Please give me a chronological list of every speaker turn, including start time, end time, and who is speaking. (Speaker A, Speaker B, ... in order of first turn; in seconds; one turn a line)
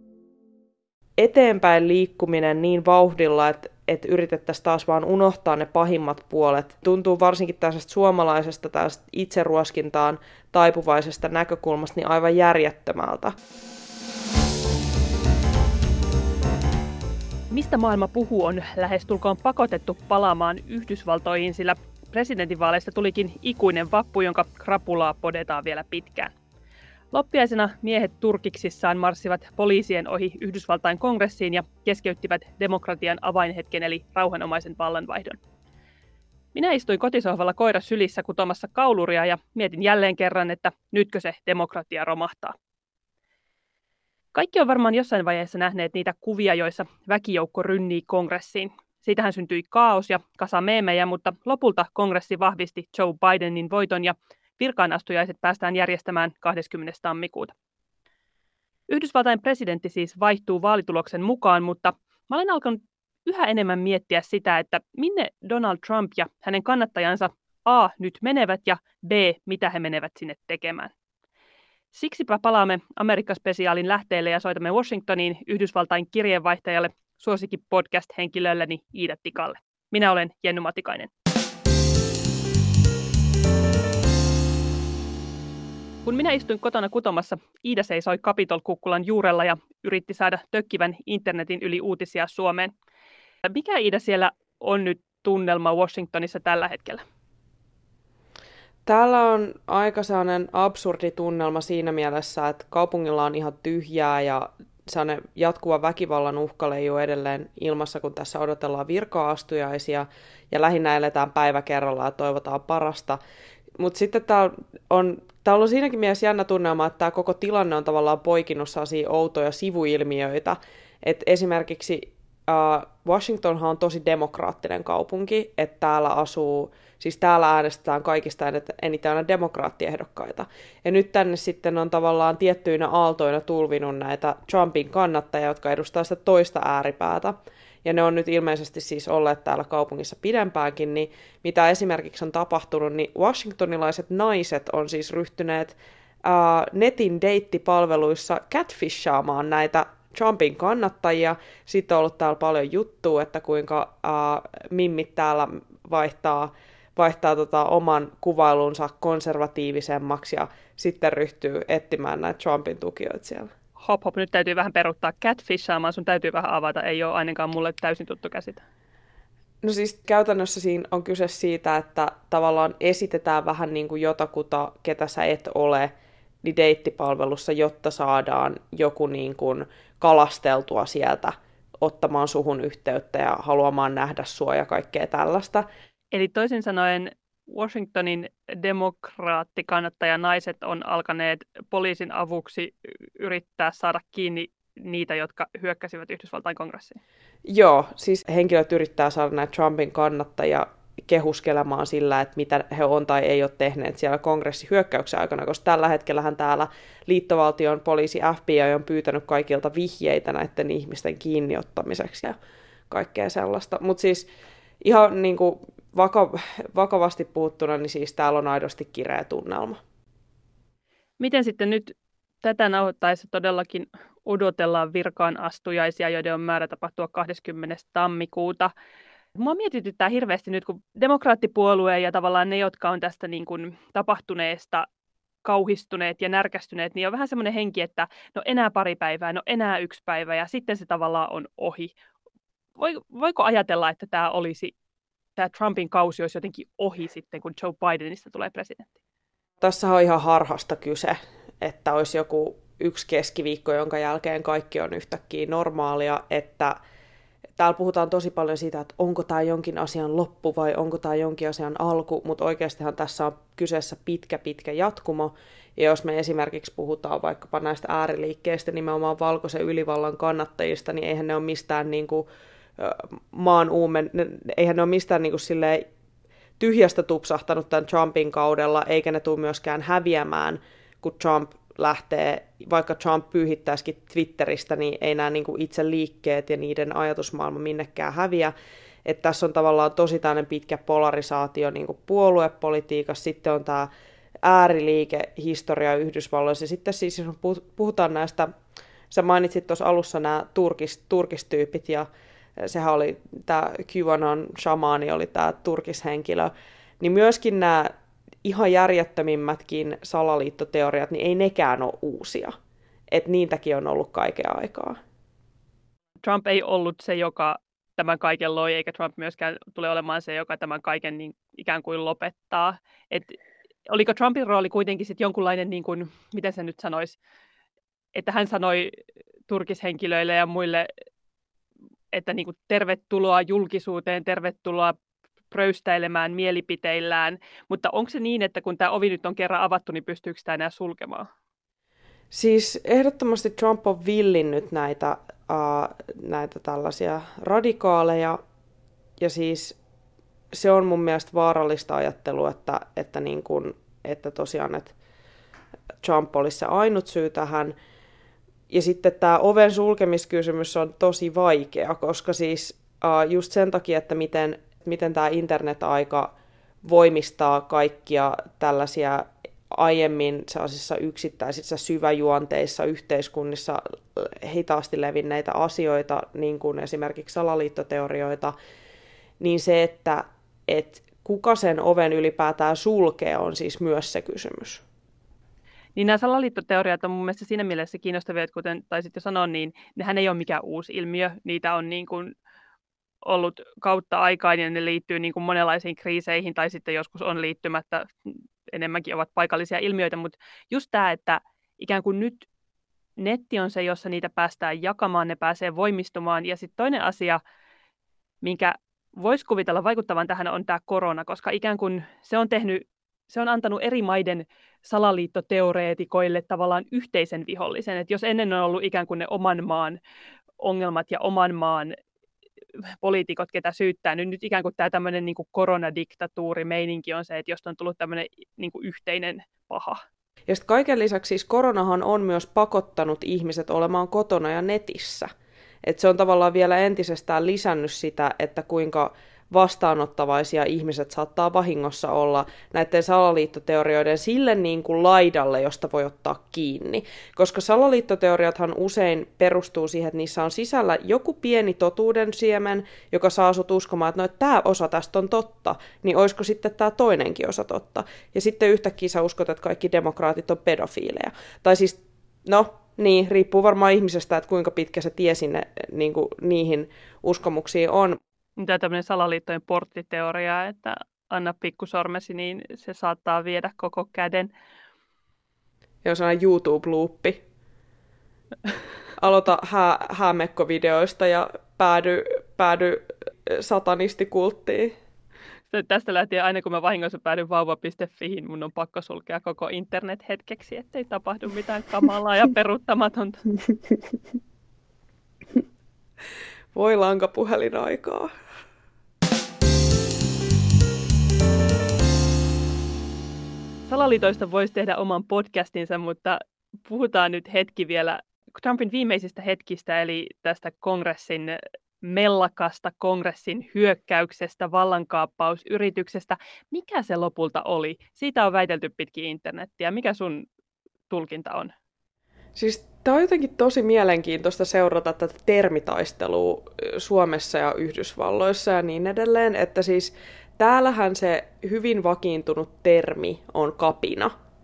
Speaker A: 1.2-13.3
Speaker B: 17.5-26.3
Speaker B: 27.1-35.4
Speaker B: 36.5-42.5
Speaker B: 44.3-57.5
Speaker B: 58.9-70.9
Speaker B: 71.9-81.1
Speaker B: 86.0-92.7
Speaker B: 93.5-97.0
Speaker A: 98.9-113.2
Speaker A: 113.8-163.5
Speaker B: 163.8-168.6
Speaker A: 169.6-175.9
Speaker A: 176.4-185.7
Speaker B: 186.1-197.0
Speaker A: 197.5-212.4
Speaker A: 212.9-214.3
Speaker A: 214.8-219.8
Speaker B: 221.2-228.7
Speaker B: 229.4-234.9
Speaker B: 235.4-241.9
Speaker B: 242.8-244.7
Speaker B: 245.4-248.9
Speaker A: 249.6-256.8
Speaker A: 257.6-272.3
Speaker A: 272.8-275.9
Speaker A: 276.6-288.5
Speaker A: 289.1-293.9
Speaker A: 294.4-298.5
Speaker A: 299.1-302.1
Speaker A: 302.6-312.6
Speaker A: 313.1-315.0
Speaker B: 316.2-323.4
Speaker B: 323.9-327.2
Speaker B: 328.1-329.0
Speaker B: 329.5-330.9
Speaker B: 332.1-334.9
Speaker B: 335.5-341.3
Speaker A: 342.3-348.4
Speaker A: 349.2-349.8
Speaker A: 350.5-354.9
Speaker A: 356.0-357.8
Speaker A: 358.7-378.5
Speaker A: 379.4-384.8
Speaker B: 386.0-392.3
Speaker B: 393.2-402.5
Speaker B: 403.2-407.4
Speaker B: 408.4-420.0
Speaker B: 420.6-421.9
Speaker B: 423.0-430.0
Speaker A: 430.5-435.3
Speaker A: 435.8-468.2
Speaker B: 468.6-474.5
Speaker A: 476.0-477.4
Speaker A: 479.2-484.9
Speaker B: 485.7-493.5
Speaker A: 496.7-498.3
Speaker B: 503.9-520.5
Speaker B: 521.1-521.7
Speaker A: 522.6-534.3